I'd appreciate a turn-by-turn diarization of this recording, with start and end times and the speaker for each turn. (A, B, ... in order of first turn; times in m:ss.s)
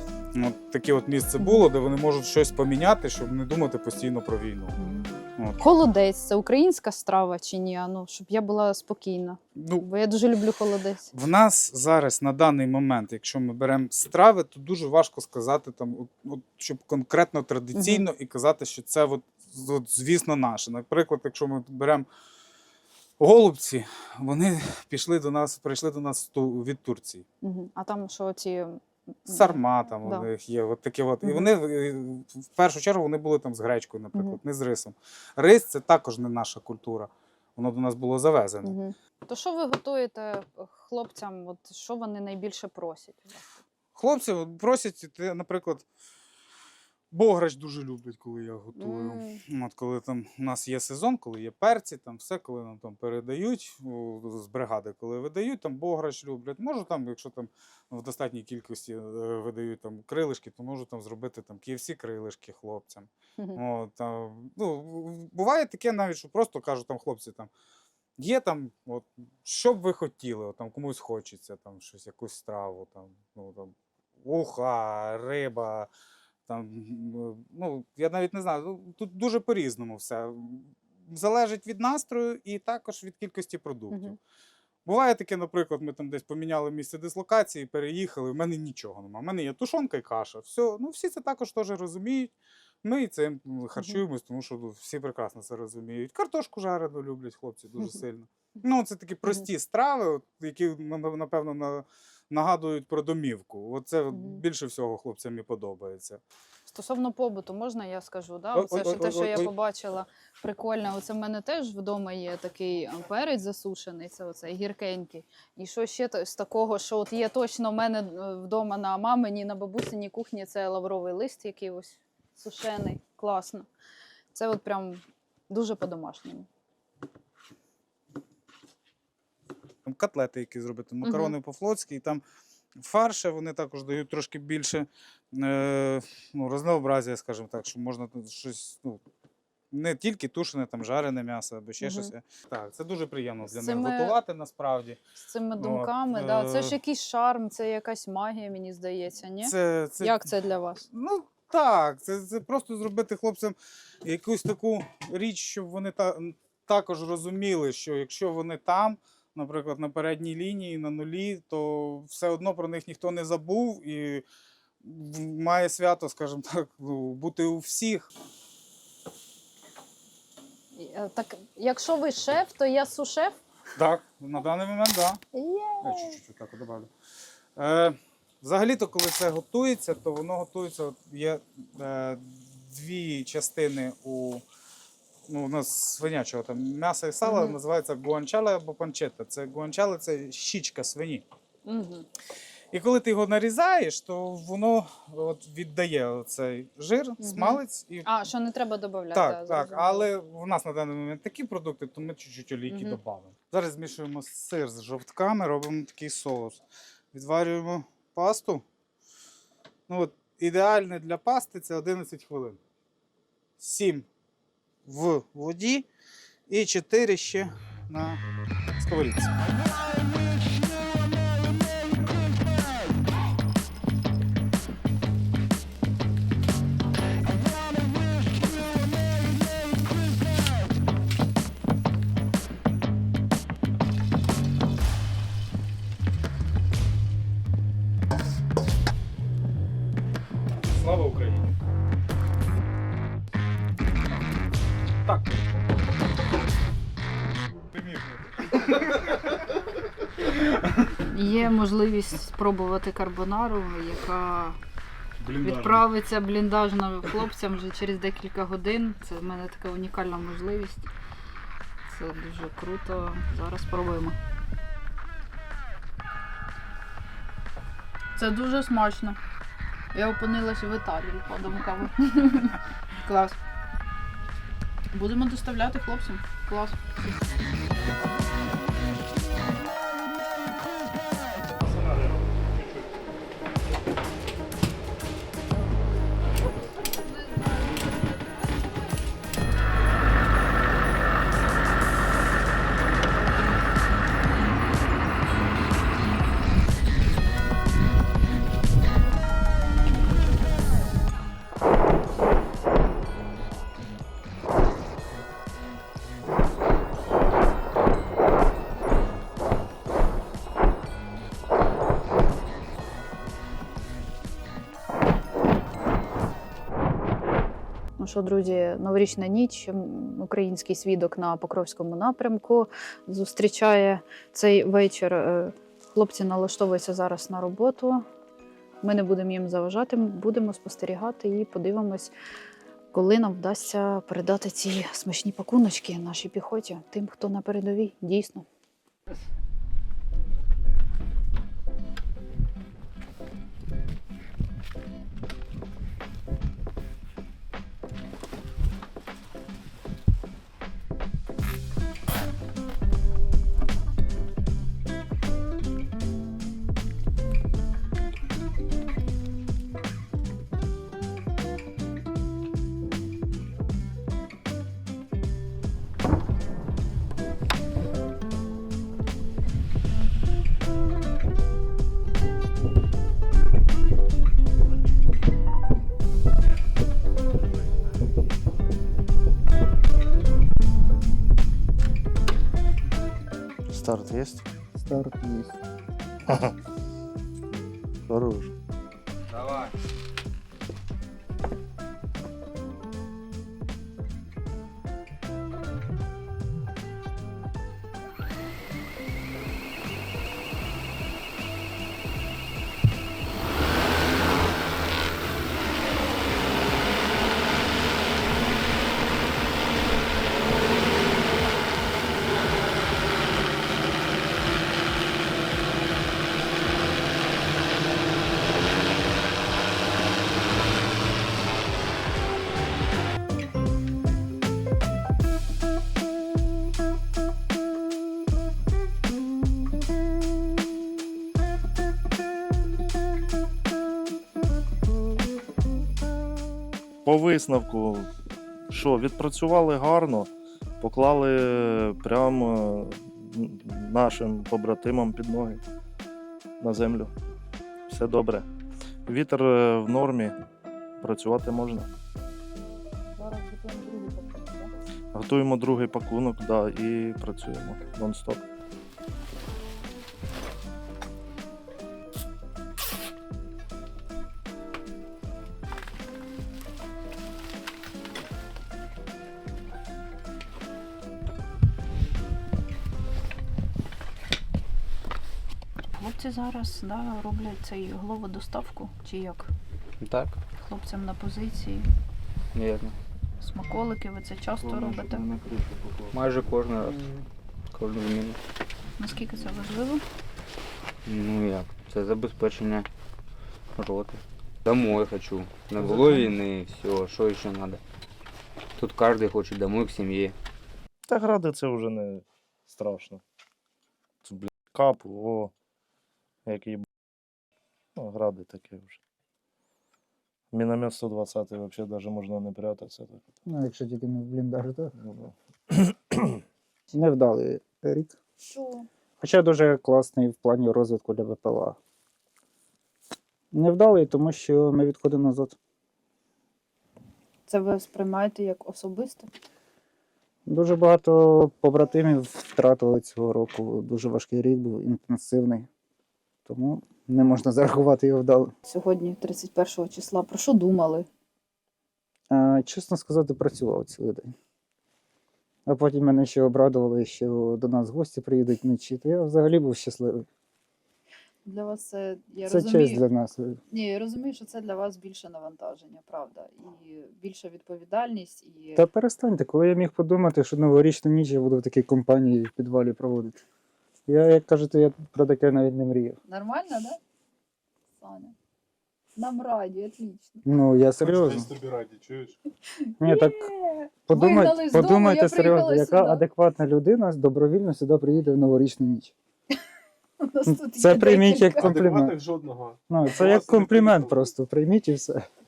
0:00.3-0:04.8 A
0:01.4-0:01.6 B
0:04.8-0:11.1 B
0:09.6-0:09.8 A
0:11.1-0:22.1 A
0:17.7-0:18.0 B
0:23.2-0:27.2 A
0:27.4-0:30.3 B
0:29.3-0:38.7 A
0:31.2-0:31.5 B
0:38.6-0:43.4 B
0:43.9-0:45.8 A
0:47.1-1:07.5 A
0:48.8-0:49.4 B
1:08.2-1:15.9 A
1:16.5-1:24.2 A
1:23.9-1:24.2 B
1:24.8-1:32.3 A
1:32.8-1:46.2 A
1:33.8-1:34.0 B
1:44.1-1:44.4 B
1:46.7-2:03.7 B
1:48.5-1:49.5 A
2:04.3-2:06.5 B
2:09.8-2:12.2 A
2:11.0-2:11.3 B
2:12.8-2:19.0 A
2:19.7-2:25.0 A
2:21.8-2:22.1 B
2:23.4-2:24.2 B
2:25.2-2:30.8 B
2:25.6-2:26.8 A
2:29.4-2:30.3 A
2:30.9-2:44.2 A
2:44.8-2:48.1 A
2:50.7-2:53.4 B
2:53.8-2:55.2 A
2:55.3-2:56.2 B
2:55.8-2:56.9 A
2:57.6-3:04.4 A
3:05.3-3:11.2 A
3:07.2-3:07.6 B
3:11.6-3:12.1 B
3:12.7-3:18.1 A
3:17.2-3:20.1 B
3:19.1-3:26.6 A
3:22.7-3:23.0 B
3:27.1-3:28.6 A
3:29.9-3:32.6 A
3:33.6-3:34.1 A
3:34.8-3:35.8 A
3:36.5-3:38.2 A
3:38.8-3:39.4 A
4:00.6-4:01.5 A
4:05.0-4:05.6 A
4:07.7-4:09.2 A
4:11.1-4:14.6 B
4:15.2-4:15.8 A
4:15.4-4:20.9 B
4:21.9-4:24.2 B
4:28.2-4:29.2 B
4:29.9-4:33.4 B
4:34.9-4:36.8 B
4:41.5-4:43.0 C
4:46.9-4:48.4 B
5:18.0-5:28.0 B
5:28.8-5:32.1 B
5:32.9-5:38.4 B
6:23.7-6:24.4 D
6:24.8-6:25.6 E
6:26.3-6:26.5 D
6:28.0-6:28.5 D
6:29.3-6:29.7 A
7:17.0-7:18.1 D
7:18.7-7:25.6 D
7:26.6-7:27.1 D
7:27.9-7:28.5 D
7:29.0-7:30.4 D
7:31.0-7:31.9 D
7:33.2-7:34.7 B
7:35.1-7:38.4 D
7:55.9-7:59.5 B
8:00.0-8:00.4 F
8:00.6-8:01.9 B
8:02.5-8:03.0 F
8:03.4-8:05.2 B
8:04.6-8:06.1 D
8:06.1-8:07.1 F
8:07.7-8:08.4 F
8:09.0-8:10.0 B
8:11.0-8:12.9 F
8:13.8-8:17.8 F
8:18.8-8:20.4 F
8:21.1-8:23.2 D
8:24.2-8:25.5 D
8:26.4-8:26.9 D
8:28.0-8:29.0 D
8:30.5-8:33.2 D
8:33.5-8:34.9 E
8:35.0-8:36.4 D
8:36.9-8:38.2 E
8:38.5-8:38.9 B
8:39.2-8:41.8 E
8:43.5-8:45.6 E
8:47.5-8:49.3 B
8:50.5-8:55.7 E
8:56.4-8:58.5 E
8:58.6-9:01.1 B
9:02.3-9:04.3 E
9:05.7-9:10.3 E
9:11.4-9:13.0 B
9:12.4-9:13.6 E
9:13.7-9:18.8 B
9:18.8-9:23.4 E
9:24.1-9:26.2 E
9:26.2-9:27.0 B
9:28.0-9:28.3 B
9:29.2-9:30.4 B
9:30.4-9:31.5 E
9:31.0-9:32.4 C
9:32.8-9:36.2 B
9:33.0-9:33.5 E
9:34.1-9:39.1 E
9:40.2-9:41.8 B
9:40.4-9:42.2 E
9:41.6-9:44.3 C
9:42.9-9:45.2 E